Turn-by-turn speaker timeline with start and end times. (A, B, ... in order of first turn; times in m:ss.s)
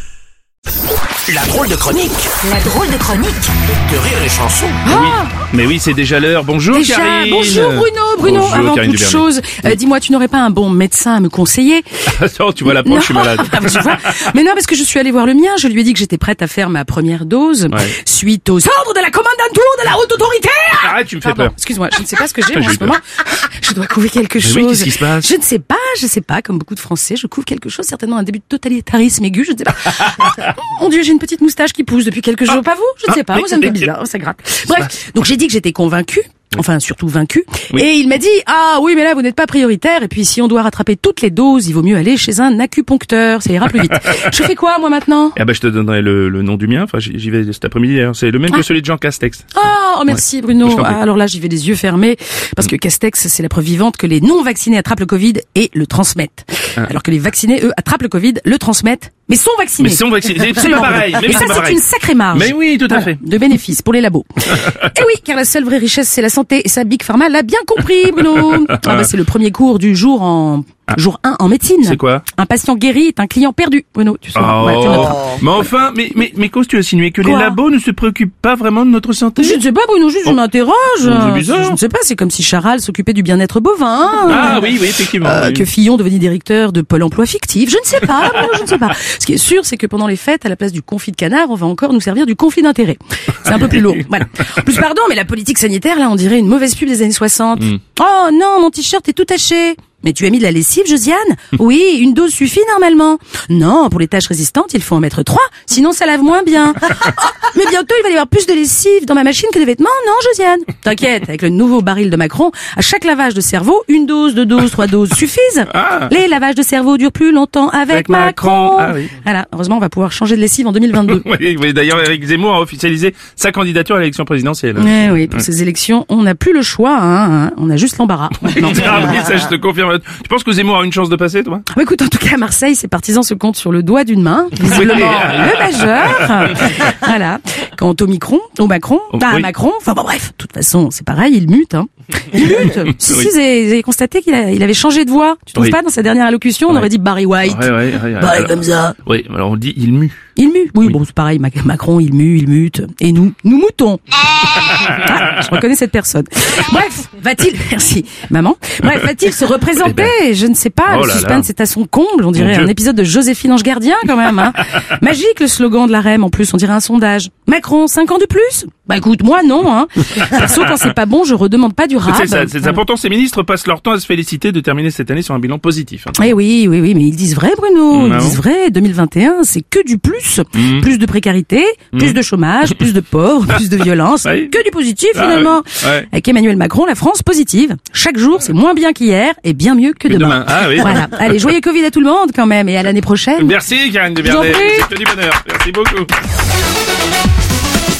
0:01.2-0:02.3 A
0:02.4-0:03.5 B
0:03.7-0:04.8 A
0:04.8-0:05.3 B
0:04.8-0:09.7 C
0:06.7-0:11.8 B
0:12.0-0:14.1 C
0:12.7-0:45.4 B
0:20.8-0:21.5 C
0:22.5-0:23.0 C
0:24.4-0:25.3 C
0:33.3-0:33.8 C
0:45.4-0:49.5 C
0:49.5-1:15.4 B
0:50.1-0:51.0 C
0:59.8-1:03.2 C
1:08.4-1:09.1 C
1:11.8-1:12.2 C
1:14.3-1:19.6 C
1:17.2-1:17.6 B
1:19.4-2:01.2 B
1:21.0-1:21.8 C
1:24.2-1:25.7 C
1:55.7-1:56.1 C
1:57.9-1:59.1 C
2:00.9-2:05.4 C
2:04.8-2:09.3 B
2:08.4-2:11.6 C
2:11.7-2:29.0 B
2:14.6-2:16.8 C
2:19.1-2:19.5 C
2:23.0-2:23.3 C
2:27.4-2:30.2 C
2:30.4-2:52.8 B
2:39.8-2:40.1 C
2:40.9-2:41.5 C
2:42.3-2:42.7 C
2:52.0-2:56.3 C
2:56.2-3:13.6 B
2:57.9-2:58.4 C
3:00.5-3:00.9 C
3:01.9-3:02.2 C
3:04.2-3:04.5 C
3:05.1-3:06.1 C
3:10.1-3:11.5 C
3:13.4-3:16.1 C
3:14.2-3:14.9 B